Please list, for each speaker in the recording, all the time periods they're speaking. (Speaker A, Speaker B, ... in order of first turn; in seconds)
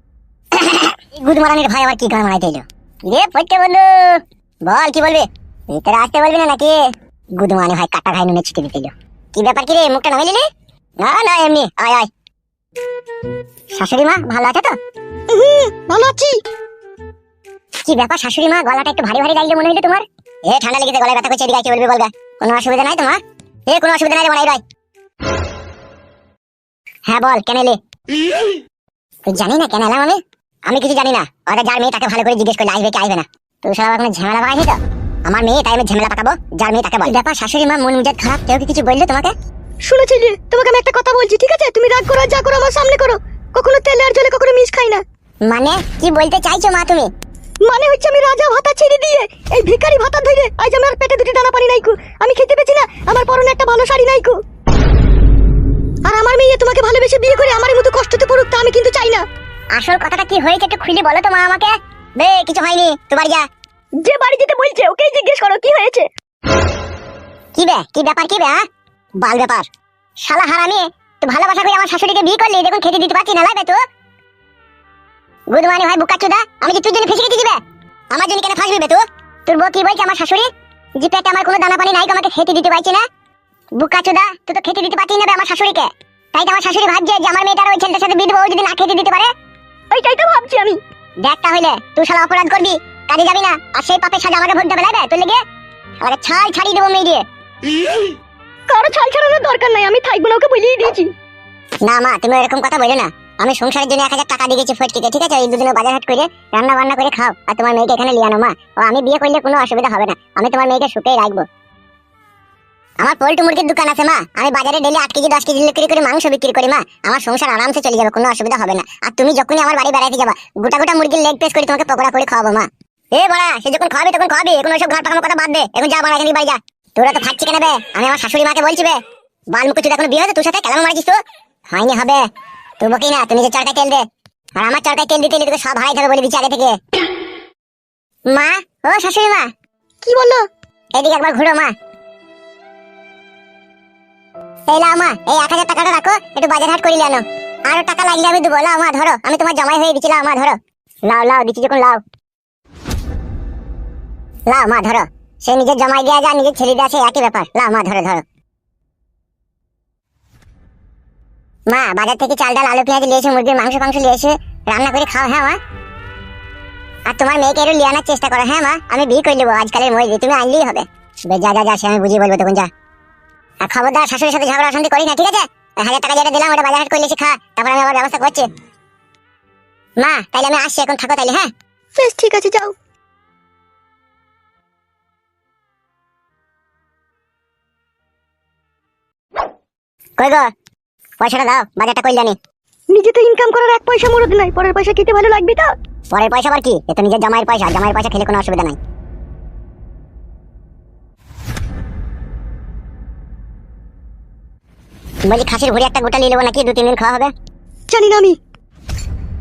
Speaker A: 0.5-6.8, 7.4-10.5, 11.0-12.1, 13.7-14.8, 17.9-24.6, 27.1-27.8, 29.3-39.3, 45.5-47.1, 59.7-63.5, 67.5-68.6, 69.2-69.7, 70.2-73.8, 75.5-77.6, 78.1-83.1, 83.8-89.3, 91.2-95.4, 96.0-97.2, 101.8-111.5, 113.0-129.0, 129.5-131.2, 131.7-132.3, 132.8-136.8, 138.3-139.5, 140.9-141.7, 144.7-152.0, 154.5-158.2, 161.7-165.6, 167.1-172.7, 173.6-178.5, 180.0-181.5, 190.2-190.5, 191.2-192.4, 196.1-198.8, 205.3-207.3
Speaker B: 15.3-16.4, 39.9-45.0, 47.7-54.4, 56.1-59.2, 64.0-66.1, 89.9-90.8, 98.7-101.1, 140.0-140.4, 182.0-182.7, 192.9-195.7, 207.9-208.4